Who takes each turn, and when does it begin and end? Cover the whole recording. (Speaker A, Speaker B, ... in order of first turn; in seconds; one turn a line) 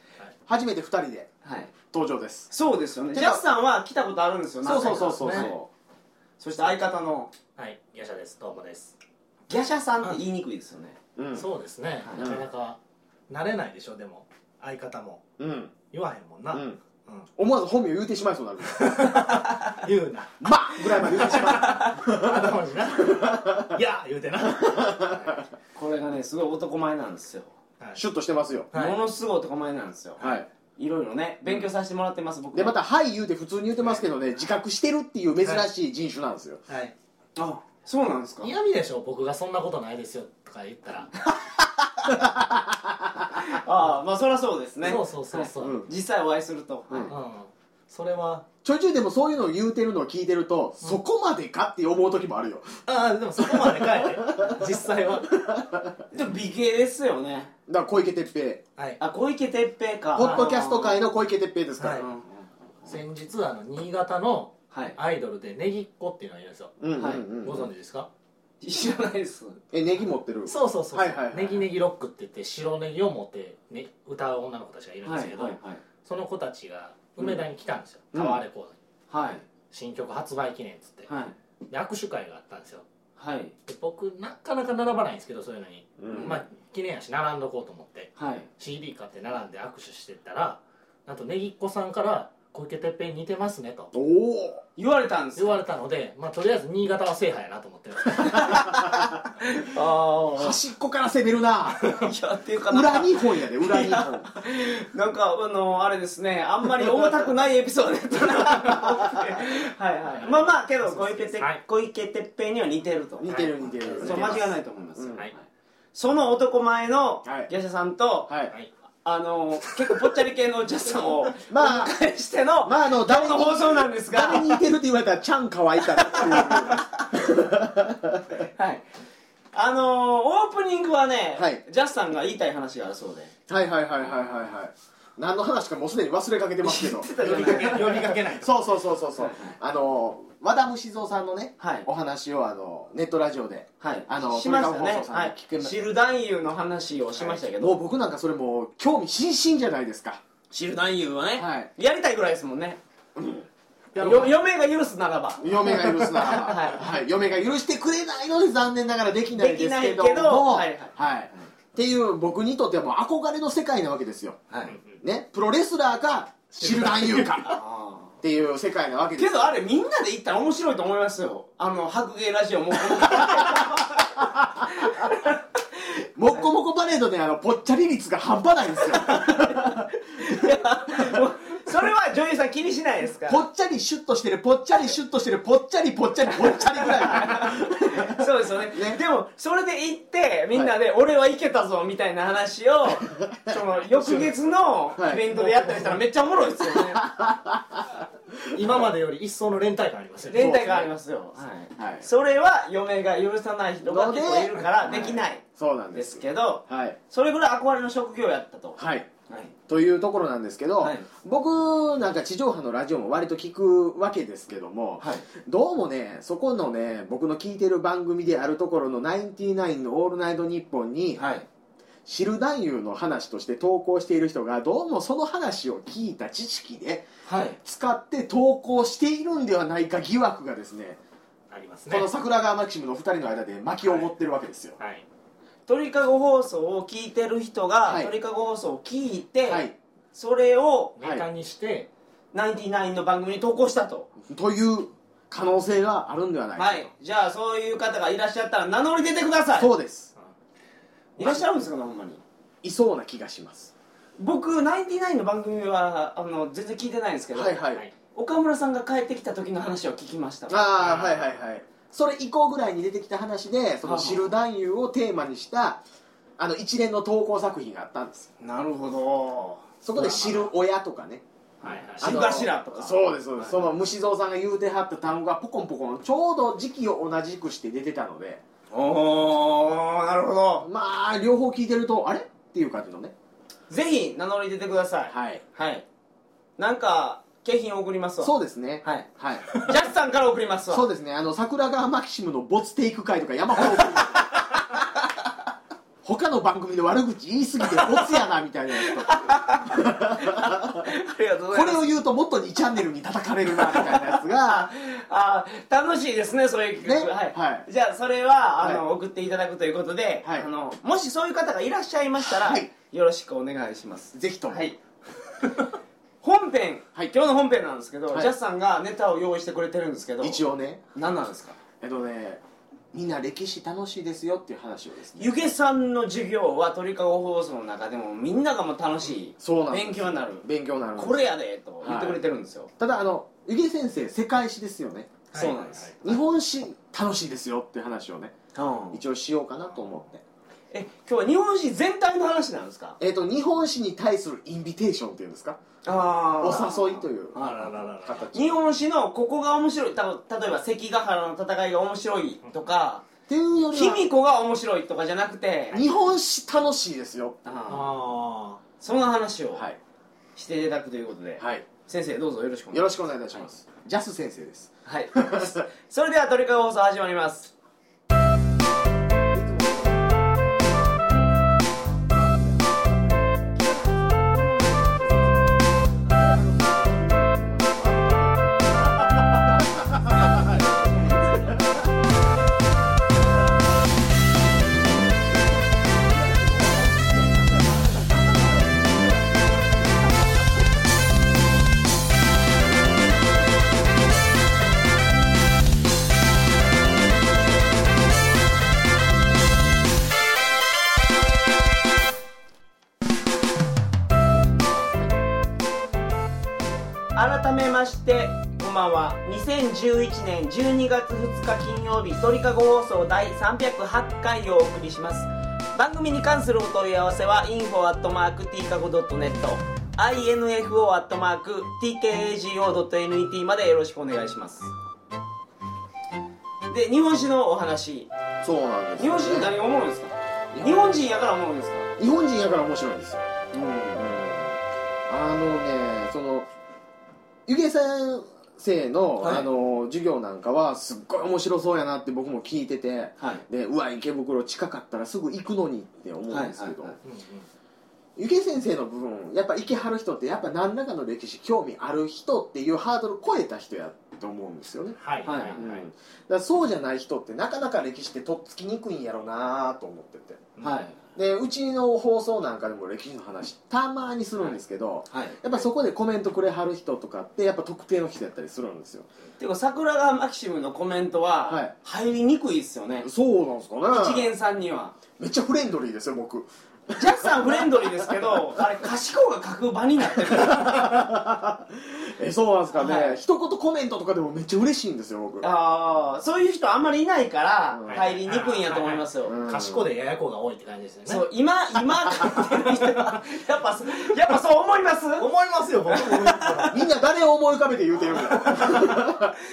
Speaker A: 0.5-1.3
Speaker B: 1.4-1.7
Speaker A: 1.9-2.5
Speaker B: 2.5-5.5
Speaker A: 3.1-3.4
Speaker A: 4.6-5.7
Speaker C: 4.8-5.5
Speaker B: 6.4-7.3
Speaker C: 7.6-8.9
Speaker B: 9.5-11.0
Speaker A: 11.2-11.5
Speaker C: 11.3-12.8
Speaker B: 12.0-12.3
Speaker A: 12.2-12.4
Speaker C: 13.3-15.2
Speaker A: 15.4-15.7
Speaker C: 15.9-17.3
Speaker A: 16.5-16.8
Speaker A: 17.4-19.1
Speaker C: 18.7-25.4
Speaker A: 20.4-23.8
Speaker B: 21.3-22.0
Speaker A: 24.5-25.4
Speaker B: 25.7-27.5
Speaker A: 27.9-28.7
Speaker B: 28.7-30.2
Speaker A: 30.2-30.5
Speaker B: 30.8-32.8
Speaker A: 32.5-36.6
Speaker C: 36.7-36.9
Speaker B: 37.4-38.5
Speaker C: 38.4-41.1
Speaker A: 42.1-43.5
Speaker B: 43.4-47.1
Speaker C: 44.8-45.9
Speaker A: 45.6-45.9
Speaker A: 46.9-47.1
Speaker C: 47.1-48.5
Speaker A: 48.6-52.8
Speaker C: 52.9-55.3
Speaker A: 53.4-56.0
Speaker B: 56.1-57.5
Speaker A: 57.7-58.6
Speaker B: 59.0-61.0
Speaker A: 60.1-62.1
Speaker C: 60.2-60.5
Speaker C: 61.8-62.1
Speaker B: 62.0-63.0
Speaker C: 62.9-68.1
Speaker B: 64.7-65.0
Speaker A: 66.8-67.7
Speaker B: 67.0-67.2
Speaker B: 68.6-69.6
Speaker A: 69.7-71.7
Speaker C: 70.5-78.8
Speaker B: 75.0-75.8
Speaker A: 78.1-78.4
Speaker B: 79.1-79.4
Speaker C: 79.7-81.1
Speaker B: 81.1-81.3
Speaker C: 81.7-82.8
Speaker B: 83.2-83.5
Speaker C: 83.7-93.9
Speaker A: 86.0-86.3
Speaker B: 86.1-86.4
Speaker B: 88.2-88.5
Speaker A: 93.9-94.6
Speaker B: 94.8-95.5
Speaker C: 95.4-98.6
Speaker B: 98.2-100.5
Speaker A: 100.3-102.0
Speaker B: 101.9-113.4
Speaker A: 102.7-104.3
Speaker C: 110.1-111.6
Speaker A: 113.2-115.2
Speaker C: 113.2-114.4
Speaker B: 114.0-118.3
Speaker A: 117.2-117.5
Speaker A: 118.3-118.5
Speaker B: 119.0-124.6
Speaker A: 121.5-121.9
Speaker A: 122.6-128.4
Speaker B: 126.1-126.9
Speaker B: 128.6-128.8
Speaker B: 129.5-133.3
Speaker A: 131.3-131.6
Speaker A: 133.5-145.9
Speaker B: 136.6-138.2
Speaker C: 137.2-138.6
Speaker B: 139.2-139.6
Speaker B: 141.6-141.8
Speaker B: 143.8-147.8
Speaker A: 147.2-150.2
Speaker B: 150.5-152.8
Speaker A: 151.3-151.7
Speaker A: 153.2-153.4
Speaker C: 153.9-154.3
Speaker B: 154.0-156.8
Speaker A: 155.4-164.4
Speaker B: 159.3-161.4
Speaker B: 164.5-164.8
Speaker A: 165.0-167.6
Speaker C: 166.5-167.5
Speaker B: 167.5-168.1
Speaker A: 168.2-169.4
Speaker B: 169.2-175.4
Speaker A: 173.0-175.1
Speaker A: 176.2-181.2
Speaker B: 179.0-183.4
Speaker A: 183.3-189.0
Speaker B: 186.4-197.0
Speaker A: 193.3-194.3
Speaker A: 194.9-195.8
Speaker A: 196.6-198.8
Speaker C: 198.5-200.5
Speaker B: 200.3-205.4
Speaker A: 200.3-200.9
Speaker A: 201.8-202.1
Speaker A: 203.8-207.0
Speaker C: 204.6-205.0
Speaker B: 205.9-209.5
Speaker A: 208.8-209.1
Speaker A: 209.7-221.2
Speaker B: 210.8-211.1
Speaker B: 215.0-215.3
Speaker B: 221.2-221.5
Speaker A: 222.1-227.1
Speaker B: 227.2-227.6
Speaker A: 227.6-231.0
Speaker C: 231.5-232.1
Speaker A: 231.9-234.8
Speaker C: 233.8-234.1
Speaker C: 234.8-235.0
Speaker B: 235.7-241.0
Speaker A: 237.8-238.1
Speaker A: 239.4-239.7
Speaker C: 241.0-241.9
Speaker A: 241.0-241.3
Speaker B: 242.3-244.1
Speaker A: 244.2-246.9
Speaker B: 246.6-249.7
Speaker A: 249.6-250.1
Speaker B: 251.2-252.2
Speaker A: 251.2-251.4
Speaker A: 252.6-253.7
Speaker B: 254.2-257.6
Speaker A: 257.3-257.9
Speaker B: 258.1-260.6
Speaker A: 260.5-265.8
Speaker C: 260.8-261.3
Speaker B: 263.8-264.2
Speaker A: 266.4-268.3
Speaker B: 268.4-269.6
Speaker A: 269.8-271.2
Speaker C: 269.9-270.5
Speaker C: 271.6-272.4
Speaker B: 271.6-273.5
Speaker A: 272.0-278.4
Speaker B: 278.7-280.6
Speaker A: 280.6-283.1
Speaker B: 283.7-285.8
Speaker A: 285.1-285.4
Speaker B: 286.6-290.9
Speaker A: 288.2-289.6
Speaker A: 290.7-294.5
Speaker A: 296.0-300.9
Speaker B: 297.7-298.0
Speaker B: 298.8-301.8
Speaker A: 301.5-304.7
Speaker B: 303.7-314.8
Speaker A: 306.8-307.7
Speaker A: 310.2-310.5
Speaker A: 312.2-312.7
Speaker A: 314.1-314.6
Speaker B: 316.2-321.6
Speaker A: 320.2-320.8
Speaker A: 321.8-325.3
Speaker B: 325.2-330.4
Speaker A: 329.4-331.2
Speaker B: 330.9-332.7
Speaker A: 331.8-332.2
Speaker A: 332.8-335.3
Speaker C: 335.3-335.9
Speaker B: 335.3-336.0
Speaker A: 336.0-338.3
Speaker B: 338.5-339.0
Speaker A: 338.9-340.2
Speaker C: 339.6-340.0
Speaker B: 340.7-343.0
Speaker A: 343.0-345.6
Speaker B: 345.8-347.7
Speaker A: 346.4-347.5
Speaker C: 347.4-348.3
Speaker A: 348.0-348.6
Speaker B: 348.3-353.1
Speaker A: 353.3-354.1
Speaker B: 353.7-355.8
Speaker A: 355.7-357.4
Speaker B: 357.4-357.9
Speaker C: 357.7-358.6
Speaker B: 358.8-359.7
Speaker A: 359.5-359.8
Speaker B: 360.4-363.0
Speaker A: 361.4-361.6
Speaker A: 362.7-365.6
Speaker B: 364.8-367.5
Speaker A: 369.3-370.0
Speaker A: 372.1-374.0
Speaker A: 374.8-375.4
Speaker A: 376.0-381.5
Speaker A: 386.1-388.4
Speaker B: 407.1-424.7
Speaker B: 426.7-428.1
Speaker A: 428.4-429.5
Speaker B: 429.0-431.9
Speaker A: 432.0-433.3
Speaker B: 433.5-434.2
Speaker A: 433.9-436.5
Speaker A: 437.5-446.9
Speaker B: 439.2-439.5
Speaker B: 443.2-443.4
Speaker B: 446.3-447.0
Speaker C: 447.0-447.5
Speaker A: 448.1-455.0
Speaker C: 455.0-455.9
Speaker B: 455.2-455.6
Speaker A: 455.5-460.5
Speaker B: 460.6-461.0
Speaker A: 461.1-469.1
Speaker B: 465.1-465.4
Speaker B: 469.4-473.1
Speaker A: 471.5-471.7
Speaker A: 473.0-474.3
Speaker B: 473.9-475.0
Speaker A: 475.2-478.4
Speaker B: 476.9-480.7
Speaker A: 480.2-485.5
Speaker B: 482.7-483.2
Speaker B: 485.4-489.4
Speaker A: 487.7-488.0
Speaker C: 487.9-491.2
Speaker A: 489.2-489.9
Speaker B: 491.1-495.3
Speaker C: 492.2-493.2
Speaker C: 495.2-496.9
Speaker A: 496.6-499.4
Speaker C: 498.2-499.2